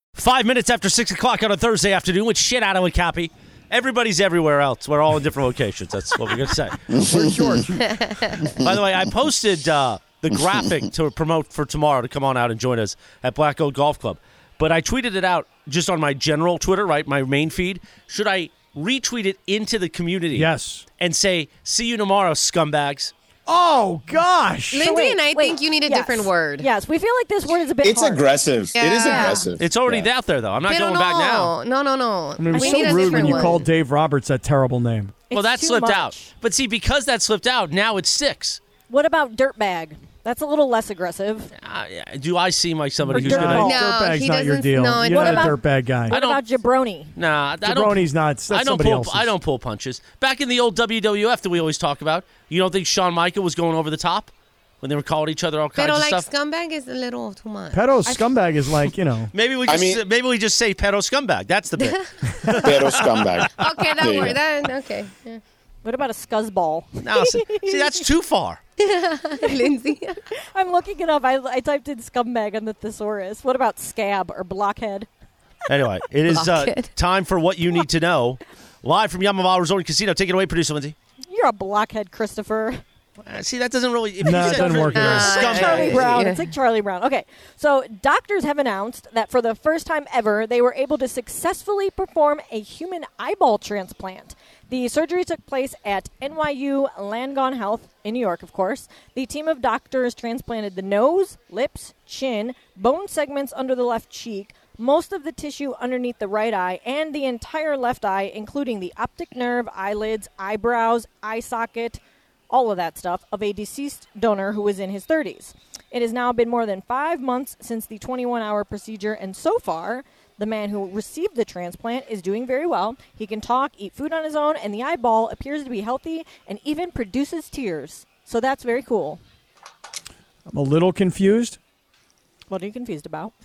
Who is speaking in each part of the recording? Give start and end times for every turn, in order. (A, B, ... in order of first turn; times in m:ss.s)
0:00.2-0:06.8 A
0:06.9-0:07.8 B
0:06.9-0:07.8 C
0:08.0-0:08.3 D
0:08.5-0:08.7 B
0:08.5-0:23.1 A
0:10.3-0:10.6 B
0:20.3-0:20.8 C
0:23.4-0:24.8 C
0:24.7-0:26.6 D
0:24.8-0:28.3 E
0:27.8-0:30.1 B
0:28.7-0:29.5 D
0:29.0-0:29.4 E
0:29.6-0:31.5 A
0:30.7-0:33.6 D
0:32.4-0:35.2 C
0:32.5-0:33.6 E
0:35.3-0:36.3 E
0:35.3-0:38.6 A
0:38.9-0:41.5 E
0:41.6-0:43.6 A
0:43.0-0:46.2 C
0:43.1-0:43.8 E
0:43.6-0:45.6 D
0:45.0-0:47.1 E
0:46.1-0:46.4 A
0:47.2-0:56.2 A
0:47.6-0:49.3 C
0:55.8-0:57.8 D
0:57.7-0:59.3 C
0:58.0-0:58.3 E
0:59.3-1:03.7 A
0:59.7-1:00.0 B
1:01.8-1:02.1 D
1:02.5-1:04.4 B
1:03.6-1:05.4 D
1:05.8-1:08.0 E
1:07.0-1:08.6 A
1:08.8-1:10.2 D
1:10.5-1:15.1 E
1:15.7-1:20.9 A
1:16.3-1:16.9 D
1:21.3-1:22.8 E
1:23.2-1:26.1 A
1:24.2-1:25.4 C
1:24.2-2:09.2 E
1:24.5-1:26.5 D
2:10.5-2:11.6 C
2:12.5-2:13.3 E